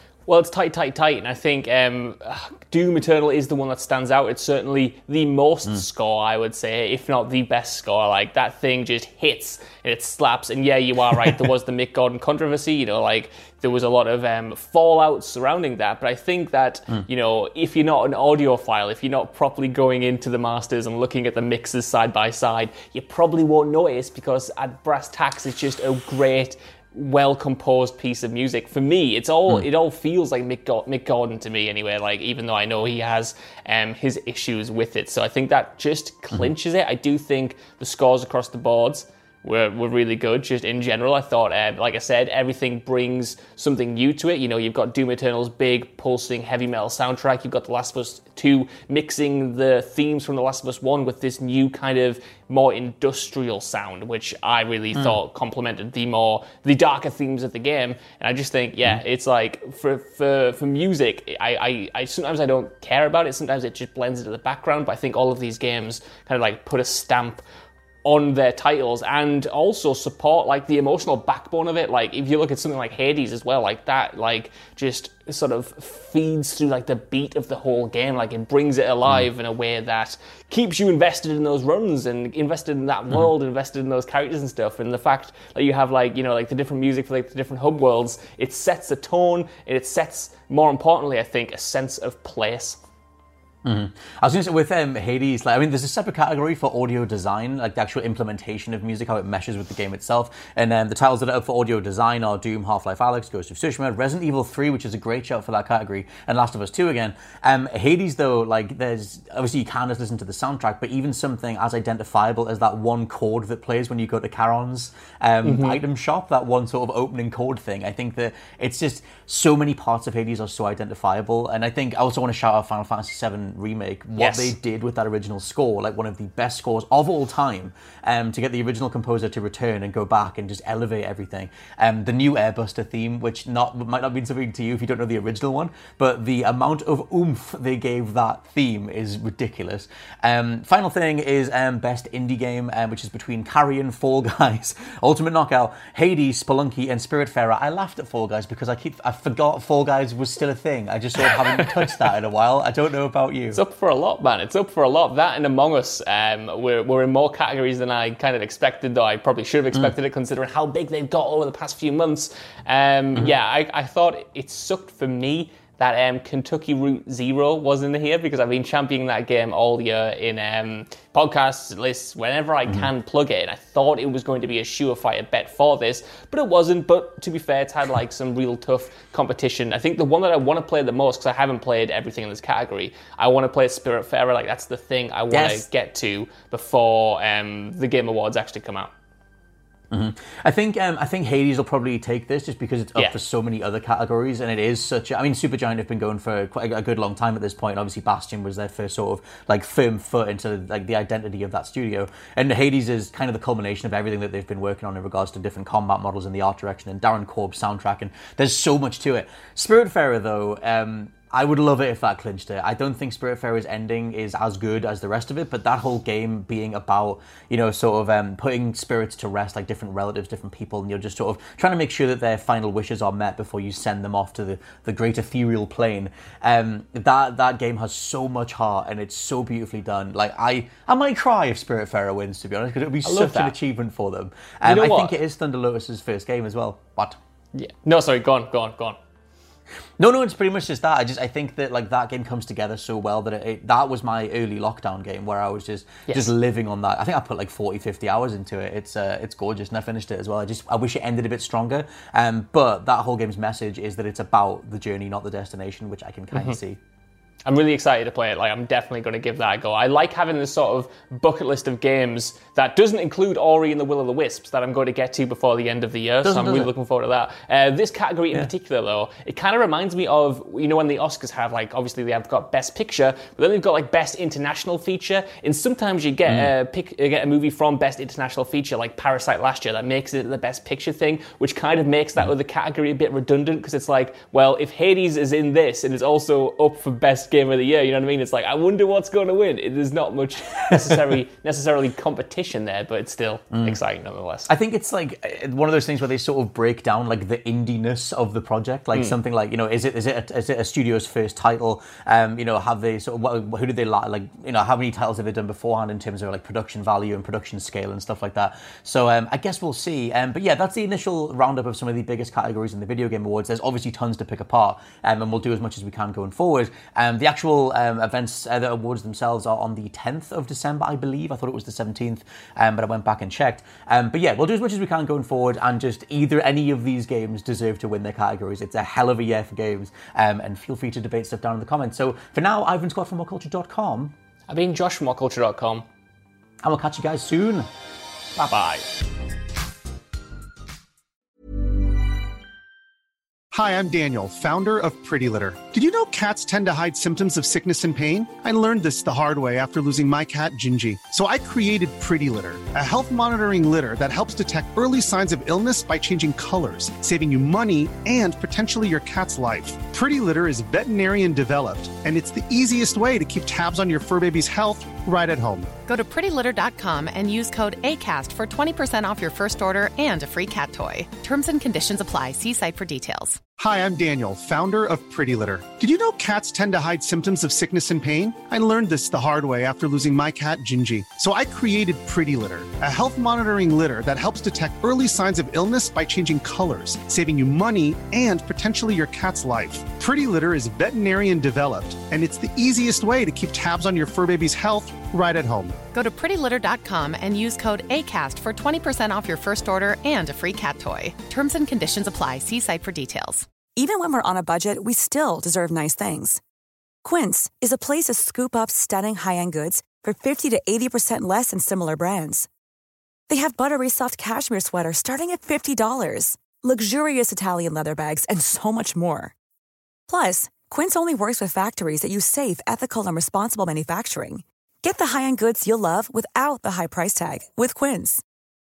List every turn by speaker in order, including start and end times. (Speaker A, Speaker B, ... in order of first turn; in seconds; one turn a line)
Speaker A: 0.3-67.4
Speaker B: 54.9-55.2
Speaker A: 68.0-92.8
Speaker B: 93.6-153.6
Speaker A: 115.4-115.8
Speaker A: 124.2-124.5
Speaker A: 153.5-188.9
Speaker B: 185.3-185.6
Speaker B: 189.9-237.2
Speaker A: 233.0-233.5
Speaker A: 234.6-235.2
Speaker A: 237.5-239.0
Speaker B: 240.0-256.8
Speaker A: 256.3-256.6
Speaker A: 257.4-294.5
Speaker B: 266.2-266.7
Speaker B: 293.5-293.8
Speaker B: 294.5-334.1
Speaker A: 334.5-335.8
Speaker B: 336.6-337.7
Speaker A: 338.4-338.9
Speaker C: 343.5-365.7
Speaker D: 365.9-373.4
Speaker C: 373.6-395.8
Speaker D: 395.9-403.4
Speaker E: 403.8-406.4
Speaker E: 407.0-412.5
Speaker E: 413.3-419.3
Speaker E: 420.1-428.2